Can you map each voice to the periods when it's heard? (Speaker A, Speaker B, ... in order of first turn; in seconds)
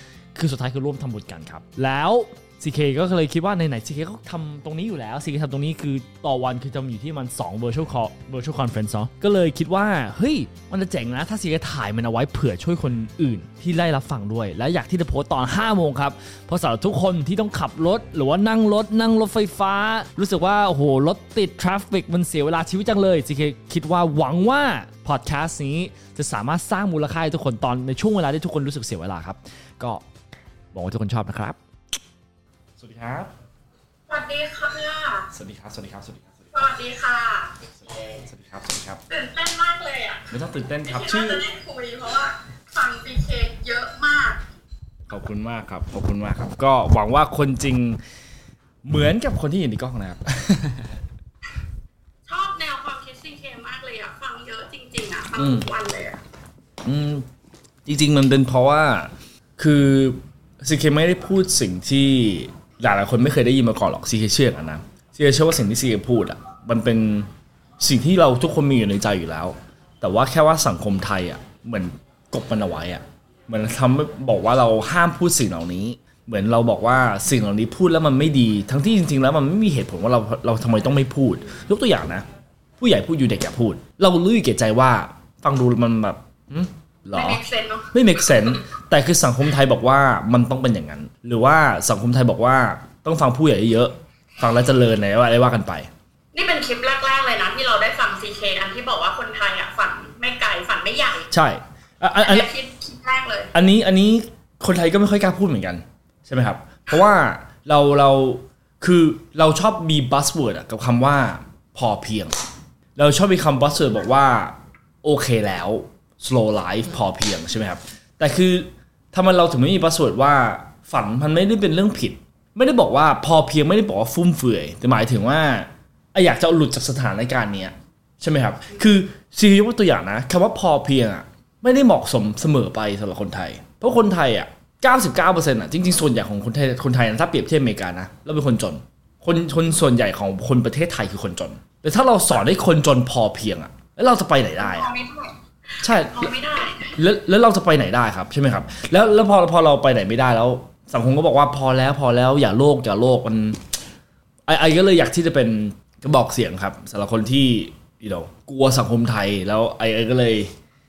Speaker A: 0.3-30.0, 30.7-31.6, 32.8-33.3, 35.3-36.3, 37.9-39.0, 40.3-41.4, 45.1-48.0, 48.8-50.9, 55.4-55.7, 56.8-57.2, 57.9-67.3, 67.8-82.2, 82.8-87.4, 87.9-95.9, 101.3-102.5, 103.5-112.3, 113.0-144.9, 145.8-146.3, 146.9-153.6, 154.5-160.5
Speaker B: 34.1-35.3, 36.5-37.6, 39.1-40.3, 40.8-44.5, 52.3-56.2, 87.1-87.9, 96.3-101.3, 102.2-103.5, 144.6-147.0